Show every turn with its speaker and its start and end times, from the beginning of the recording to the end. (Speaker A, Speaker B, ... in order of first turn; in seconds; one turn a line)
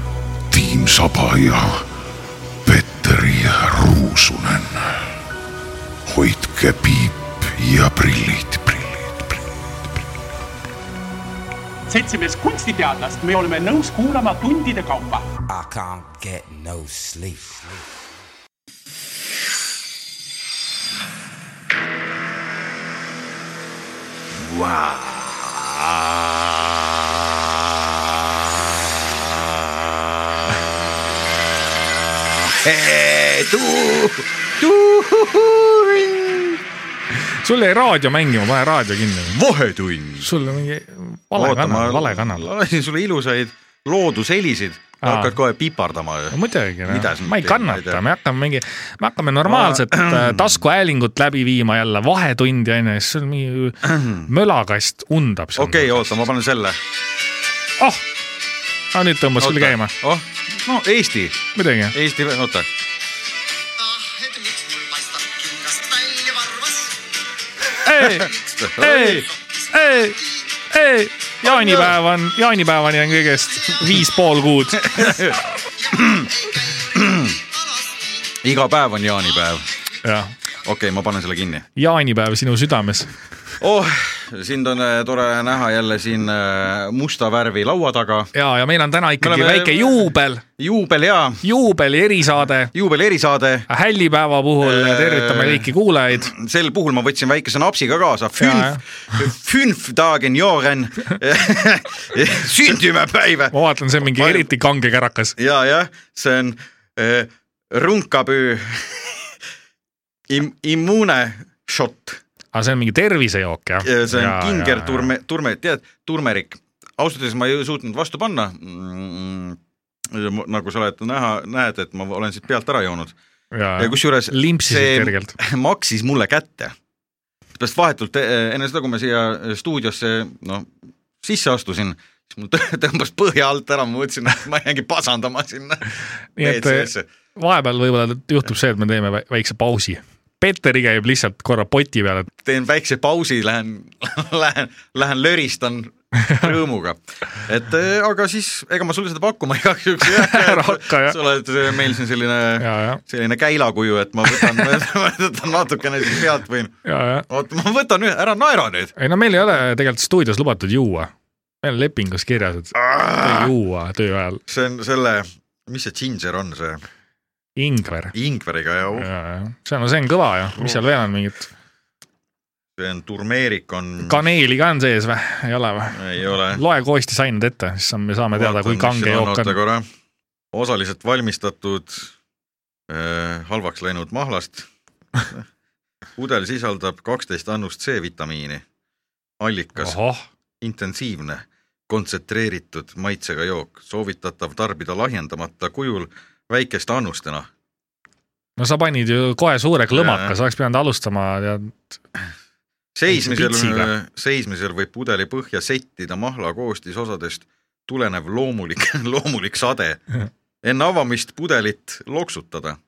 Speaker A: 0.5-1.9
Speaker A: 2.6-5.1
Speaker A: 6.1-9.4
Speaker B: 11.9-15.3
Speaker C: 15.5-17.8
Speaker D: 24.4-26.6
Speaker D: 32.2-36.6
Speaker E: 37.4-39.4
Speaker D: 39.3-40.3
Speaker E: 40.2-42.5
Speaker D: 41.3-48.0
Speaker E: 45.0-45.4
Speaker E: 46.3-56.1
Speaker D: 49.5-50.6
Speaker D: 53.8-54.3
Speaker D: 55.6-56.8
Speaker E: 58.9-59.9
Speaker D: 59.4-62.7
Speaker E: 61.5-62.0
Speaker D: 65.4-66.5
Speaker E: 67.8-75.3
Speaker D: 67.9-69.3
Speaker D: 71.4-72.0
Speaker D: 74.7-77.4
Speaker D: 78.3-79.7
Speaker E: 80.0-80.3
Speaker D: 80.6-81.7
Speaker E: 81.8-83.1
Speaker D: 83.6-88.3
Speaker E: 88.3-90.4
Speaker D: 89.2-91.4
Speaker E: 91.4-92.7
Speaker D: 92.7-93.7
Speaker E: 93.7-96.3
Speaker D: 94.6-104.5
Speaker E: 98.4-98.8
Speaker E: 103.5-105.4
Speaker D: 105.4-109.3
Speaker D: 110.3-112.2
Speaker E: 112.5-115.1
Speaker D: 113.8-123.2
Speaker E: 123.5-125.4
Speaker D: 123.8-126.8
Speaker D: 127.6-137.1
Speaker E: 136.4-142.3
Speaker D: 142.4-156.8
Speaker E: 150.0-151.2
Speaker E: 152.6-153.0
Speaker E: 154.3-154.7
Speaker E: 156.8-157.3
Speaker D: 157.3-158.9
Speaker E: 159.0-161.1
Speaker E: 161.6-164.4
Speaker D: 162.8-163.5
Speaker D: 164.5-166.8
Speaker E: 167.6-168.1
Speaker D: 168.1-169.1
Speaker E: 169.0-171.5
Speaker D: 172.8-174.3
Speaker E: 174.0-179.6
Speaker D: 175.9-176.6
Speaker D: 178.3-179.9
Speaker D: 180.5-182.1
Speaker D: 182.9-185.4
Speaker D: 186.2-188.6
Speaker D: 189.4-190.0
Speaker E: 189.8-190.2
Speaker D: 190.6-197.5
Speaker E: 198.6-201.9
Speaker D: 199.9-200.3
Speaker D: 202.9-210.0
Speaker E: 203.1-203.9
Speaker D: 210.6-212.8